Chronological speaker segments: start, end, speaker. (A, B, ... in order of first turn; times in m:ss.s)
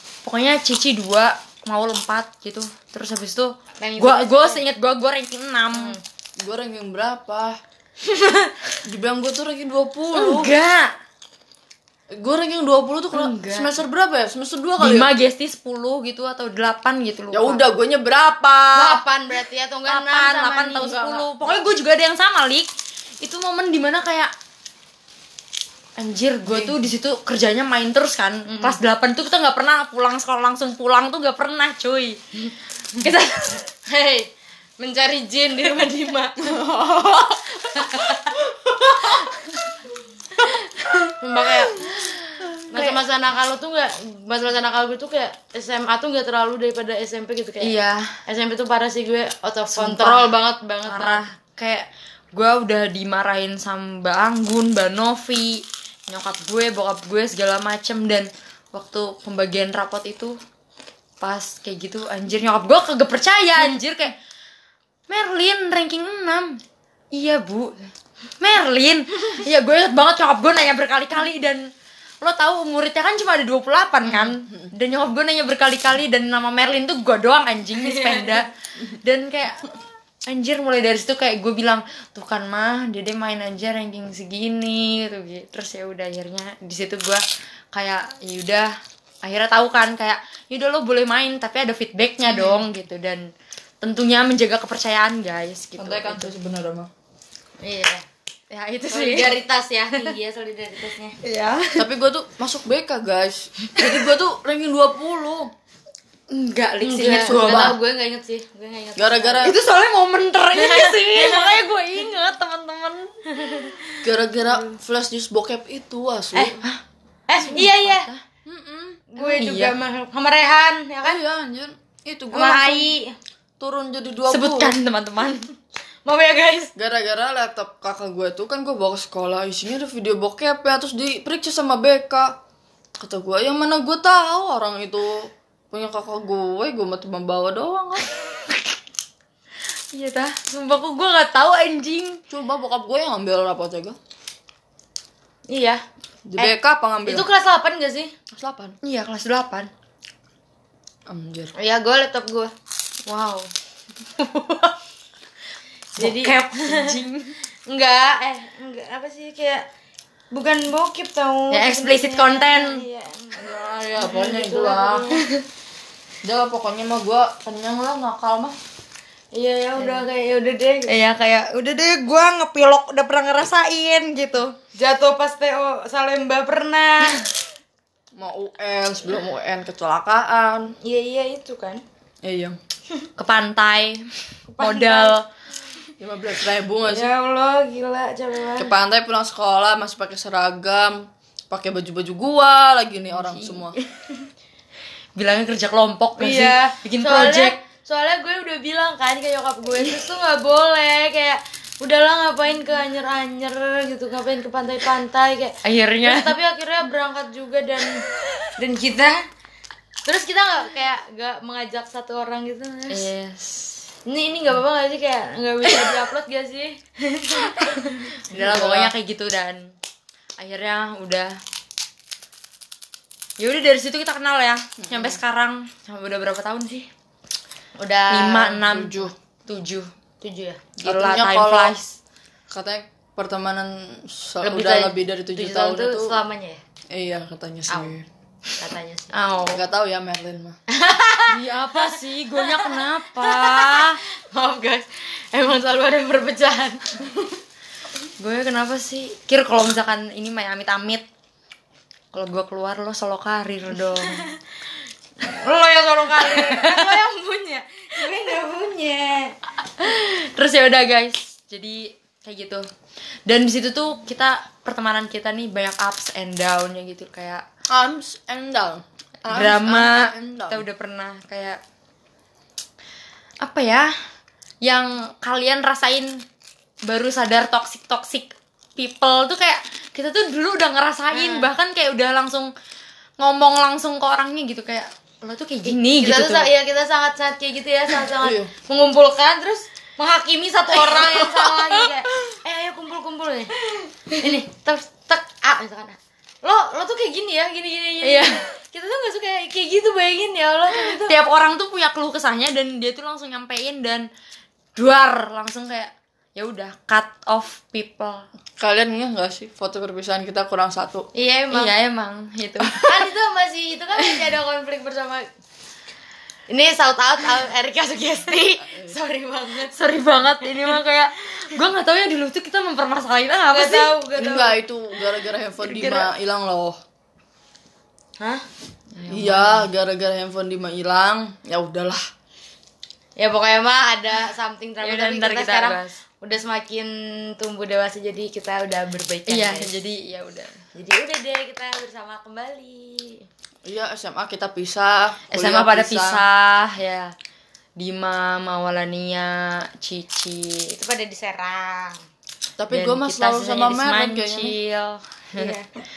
0:00.2-0:06.0 A
0:03.8-0:04.6 B
0:05.7-0:06.0 B
0:06.4-0:07.6 C
0:08.2-0:08.5 B
0:08.8-0:10.5 C
0:10.1-0:10.9 A
0:12.1-0:15.1 C
0:13.1-0:13.7 A
0:14.8-0:17.6 A
0:17.3-0:19.0 C
0:18.7-0:21.3 B
0:19.9-0:22.7 A
0:23.2-0:24.3 A
0:26.0-0:32.2 A
0:26.4-0:26.8 B
0:28.5-0:28.8 B
0:33.0-0:33.6 A
0:33.8-0:39.3 B
0:41.2-0:41.9 B
0:42.7-0:47.7 B
0:47.6-0:48.1 A
0:48.3-0:51.2 B
0:49.7-0:50.3 A
0:50.8-1:00.4 A
1:01.2-1:04.1 A
1:05.1-1:06.6 A
1:07.1-1:07.8 A
1:08.4-1:11.7 A
1:12.2-1:19.7 A
1:14.4-1:14.7 C
1:17.8-1:18.4 B
1:20.2-1:33.3 A
1:32.3-1:32.6 B
1:33.8-1:36.3 A
1:35.8-1:36.9 C
1:37.6-1:38.0 B
1:38.5-1:39.4 A
1:38.9-1:41.2 B
1:41.2-1:41.9 A
1:41.8-1:45.5 C
1:46.3-1:47.8 A
1:46.8-1:49.5 B
1:47.1-1:47.8 C
1:49.0-1:49.6 C
1:49.4-1:53.8 A
1:50.5-1:52.0 B
1:53.3-1:54.0 B
1:54.0-1:56.6 C
1:56.3-1:56.6 B
1:57.3-1:58.1 B
1:57.4-1:58.2 A
1:58.4-1:59.0 C
1:59.1-2:01.2 B
1:59.2-1:59.8 A
2:01.0-2:02.9 C
2:02.3-2:03.1 B
2:03.6-2:04.8 C
2:04.3-2:05.5 A
2:06.0-2:06.7 B
2:06.7-2:12.4 C
2:13.0-2:18.0 C
2:18.5-2:18.7 A
2:19.9-2:22.2 A
2:22.3-2:24.0 C
2:25.5-2:25.8 B
2:26.3-2:27.3 C
2:27.0-2:28.1 B
2:28.3-2:28.8 C
2:28.8-2:29.7 A
2:31.1-2:31.5 C
2:31.6-2:32.5 B
2:33.0-2:33.5 A
2:34.2-2:34.7 A
2:36.0-2:37.0 B
2:36.0-2:37.3 A
2:37.7-2:39.6 B
2:40.3-2:45.2 B
2:41.5-2:42.8 A
2:43.4-2:45.1 C
2:46.2-2:48.6 C
2:49.3-2:51.0 B
2:49.8-2:50.0 A
2:50.9-2:54.5 A
2:54.8-2:57.2 B
2:58.1-3:00.7 C
3:00.8-3:01.8 B
3:02.2-3:02.6 C
3:03.2-3:04.1 A
3:04.5-3:05.2 B
3:04.6-3:05.2 A
3:06.0-3:07.1 C
3:06.9-3:08.7 B
3:08.6-3:13.8 C
3:13.2-3:14.2 A
3:15.2-3:17.6 A
3:16.2-3:28.0 B
3:25.6-3:26.3 A
3:28.6-3:29.2 B
3:30.0-3:33.1 B
3:32.9-3:33.9 A
3:34.0-3:37.6 B
3:37.3-3:39.7 A
3:38.3-3:38.9 C
3:40.4-3:41.4 A
3:43.4-3:46.9 A
3:44.8-3:45.2 C
3:47.8-3:48.6 B
3:48.1-3:49.9 A
3:48.6-3:49.1 C
3:50.2-3:50.6 B
3:50.8-3:52.0 A
3:50.8-3:51.8 C
3:52.5-3:56.2 C
3:54.4-3:56.6 B
3:56.9-3:58.1 C
3:58.6-3:59.1 B
3:59.1-3:59.6 A
3:59.5-4:00.6 C
4:00.7-4:06.9 B
4:01.3-4:04.0 A
4:08.2-4:11.0 A
4:12.1-4:14.2 A
4:14.0-4:14.4 B
4:15.2-4:19.4 B
4:16.2-4:17.0 A
4:19.8-4:22.7 A
4:23.2-4:27.4 A
4:27.7-4:30.6 C
4:29.3-4:31.6 A
4:33.4-4:33.9 A
4:34.6-4:36.2 A
4:36.8-4:42.5 A
4:41.1-4:41.5 B
4:43.2-4:46.5 A
4:45.6-4:53.5 B
4:48.2-4:48.5 C
4:50.9-4:51.2 A
4:54.2-5:01.2 B
4:58.0-4:58.4 A
5:00.7-5:04.1 A
5:04.8-5:08.3 A
5:08.6-5:11.1 C
5:11.1-5:11.7 B
5:11.5-5:13.0 A
5:12.8-5:15.3 B
5:16.5-5:19.7 B
5:19.7-5:23.9 A
5:23.5-5:24.6 B
5:24.2-5:26.8 C
5:25.6-5:26.1 A
5:29.0-5:29.7 A
5:29.1-5:32.0 C
5:33.2-5:39.7 B
5:34.8-5:36.0 A
5:39.3-5:40.6 A
5:40.7-5:43.3 B
5:43.6-5:46.2 C
5:45.3-5:47.1 A
5:47.8-5:50.8 A
5:50.7-5:52.0 B
5:52.6-5:54.6 C
5:52.7-5:55.6 A
5:55.3-5:55.6 B